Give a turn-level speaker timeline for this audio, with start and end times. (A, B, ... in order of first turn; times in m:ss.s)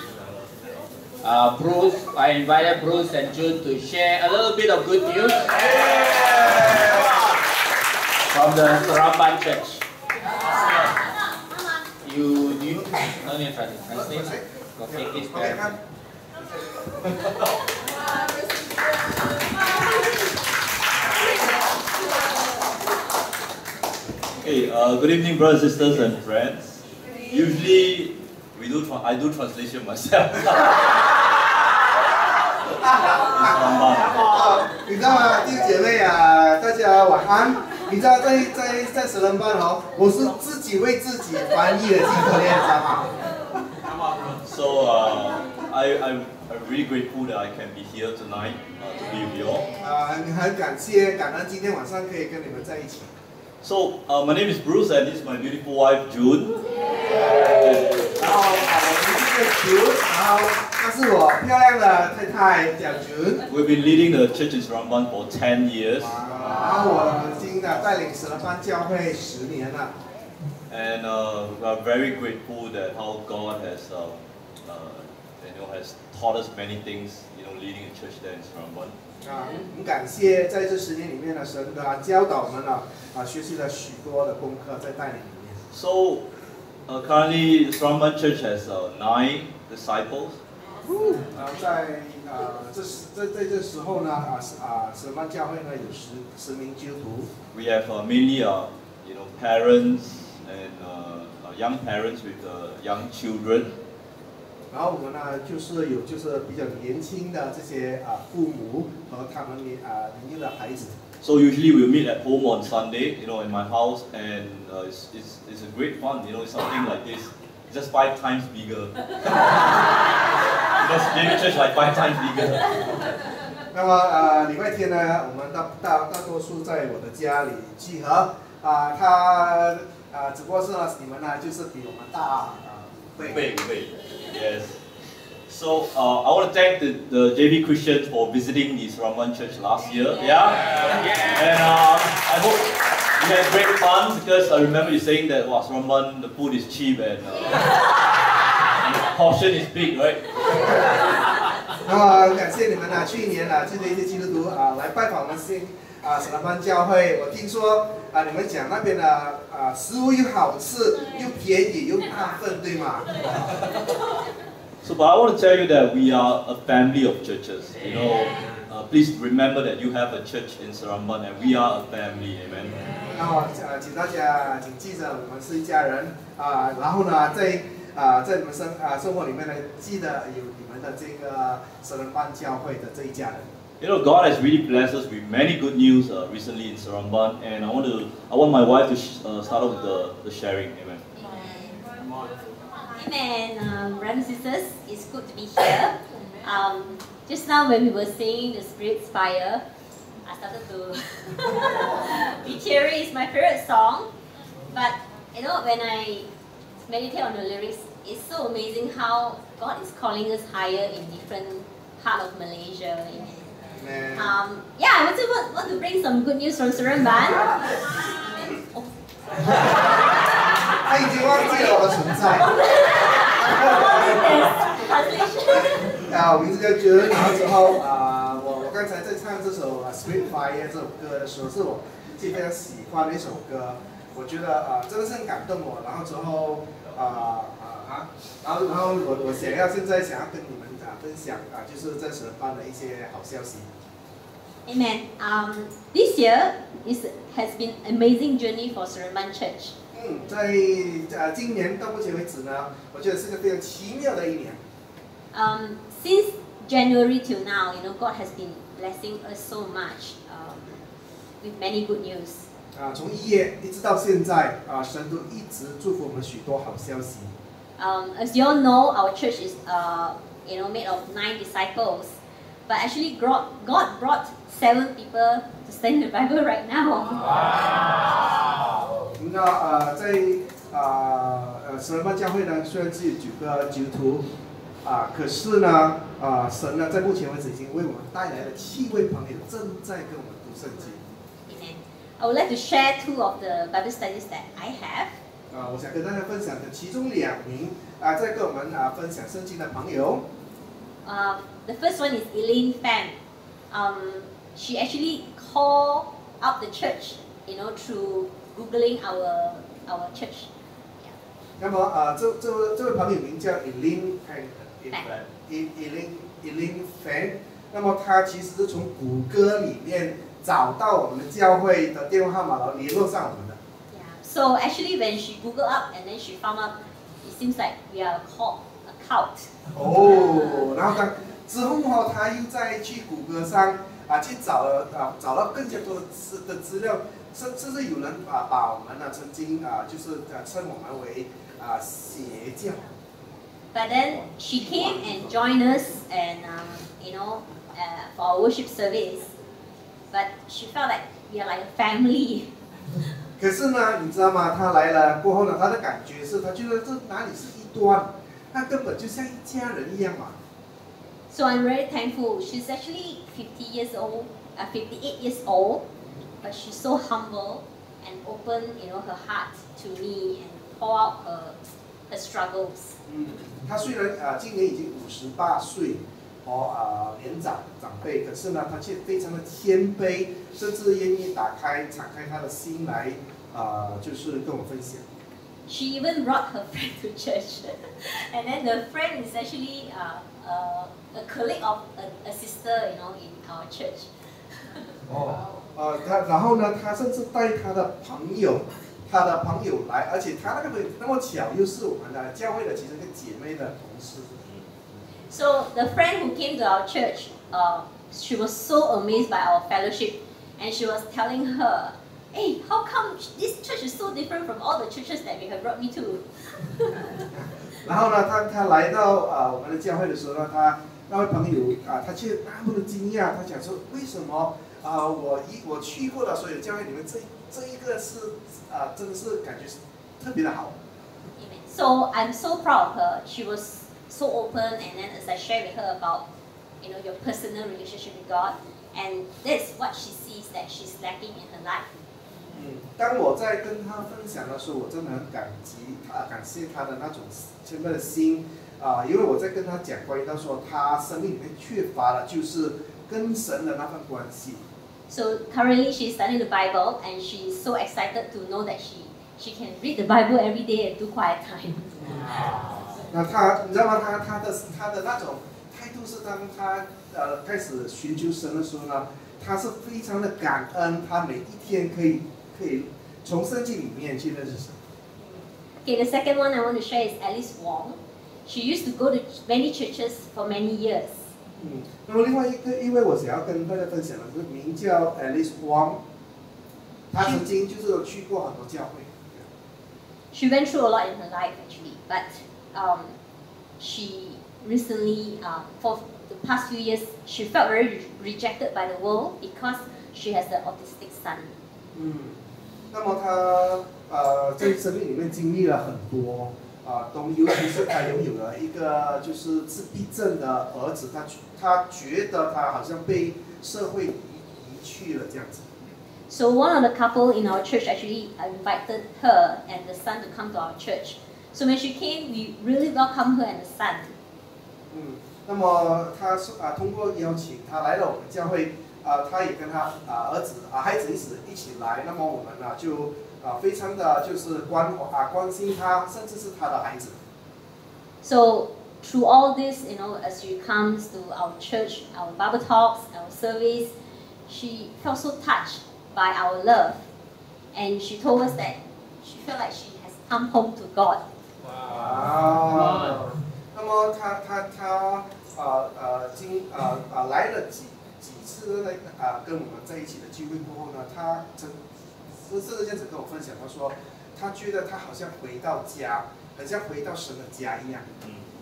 0:01.2-0:07.4 A
0:05.6-0:07.2 B
0:08.3-0:09.8 A
0:12.0-0:15.8 A
0:13.9-0:15.8 B
0:16.4-0:17.0 B
0:24.4-0:31.5 C
0:32.9-0:43.2 B
0:33.0-0:34.5 C
0:44.3-0:49.8 C
0:49.7-0:53.1 B
0:53.6-0:58.1 C
0:57.0-1:03.4 B
1:03.5-1:06.6 C
1:06.1-1:09.9 B
1:10.7-1:18.9 C
1:19.2-1:25.6 B
1:25.7-1:26.2 C
1:26.9-1:30.4 C
1:31.1-1:37.3 B
1:37.5-1:43.8 C
1:44.7-1:51.0 B
1:51.2-2:03.2 C
2:03.7-2:13.4 B
2:13.2-2:14.8 C
2:15.5-2:31.0 C
2:20.6-2:21.5 A
2:31.8-2:43.7 B
2:44.8-2:53.2 C
2:53.1-3:03.5 B
3:03.8-3:11.0 C
3:12.9-3:19.6 D
3:20.2-3:24.1 D
3:24.7-3:26.3 D
3:26.9-3:38.9 D
3:33.8-3:34.3 B
3:39.4-3:40.0 D
3:40.7-3:42.6 B
3:42.4-3:46.0 D
3:43.3-3:44.6 B
3:45.8-4:03.7 B
4:04.6-4:09.7 D
4:09.9-4:14.6 B
4:15.3-4:20.8 D
4:21.4-4:22.5 D
4:22.7-4:27.3 B
4:27.8-4:32.2 D
4:32.7-4:38.1 D
4:39.1-4:44.2 B
4:44.8-4:51.0 B
4:51.4-4:55.1 D
4:55.5-5:00.2 B
5:01.0-5:03.2 D
5:03.7-5:11.1 D
5:11.6-5:23.6 B
5:23.9-5:29.5 D
5:29.7-5:42.9 B
5:43.7-5:49.3 D
5:44.6-5:45.3 B
5:50.1-5:52.5 D
5:53.4-6:00.4 B
6:01.3-6:05.8 D
6:06.4-6:12.9 D
6:13.1-6:25.0 B
6:25.7-6:35.0 D
6:35.1-6:44.4 B
6:45.3-6:57.2 D
6:57.3-7:10.8 B
7:11.4-7:16.2 D
7:16.8-7:21.9 D
7:22.5-7:34.6 B
7:35.1-7:42.5 D
7:42.0-7:54.8 B
7:55.8-8:01.2 D
8:01.6-8:06.0 B
8:07.1-8:09.4 B
8:10.3-8:13.1 D
8:13.8-8:21.6 D
8:21.9-8:22.4 B
8:22.9-8:35.7 B
8:36.3-8:44.1 D
8:44.9-8:57.2 B
8:58.2-9:03.9 D
9:04.5-9:07.0 D
9:07.7-9:11.2 D
9:11.8-9:21.8 B
9:22.4-9:28.1 B